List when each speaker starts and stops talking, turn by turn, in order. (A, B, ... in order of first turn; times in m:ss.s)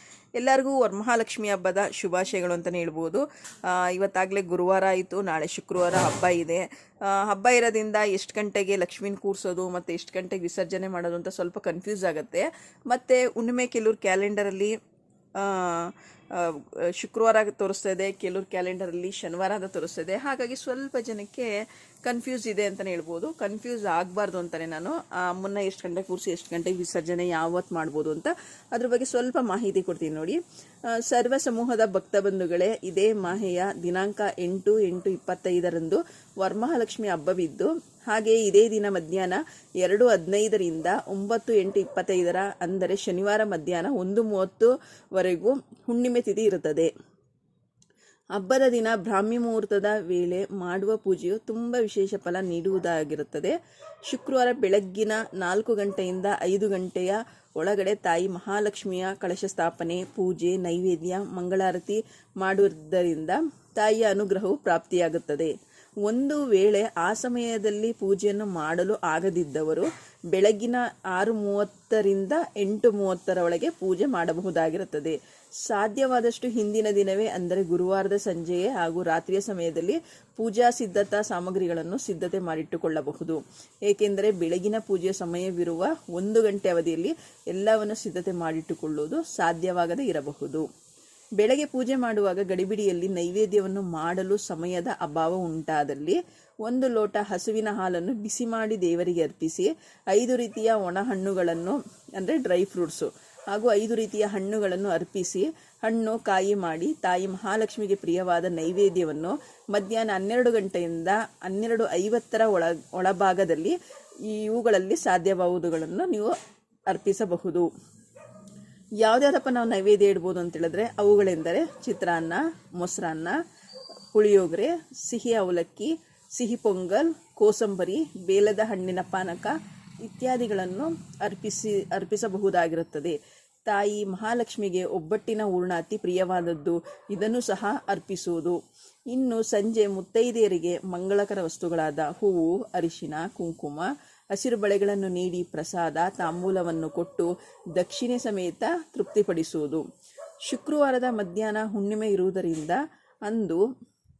0:00.4-0:14.7 A
0:15.4-0:30.4 A
0:30.9-0:46.9 A
0:48.4-0:53.5 A
0:54.1-1:05.5 A
1:06.0-1:30.6 A
1:31.4-1:56.3 A
1:56.9-1:57.7 A
1:59.0-2:03.4 A
2:04.1-2:18.6 A
2:19.1-2:29.8 A
2:30.4-2:33.6 A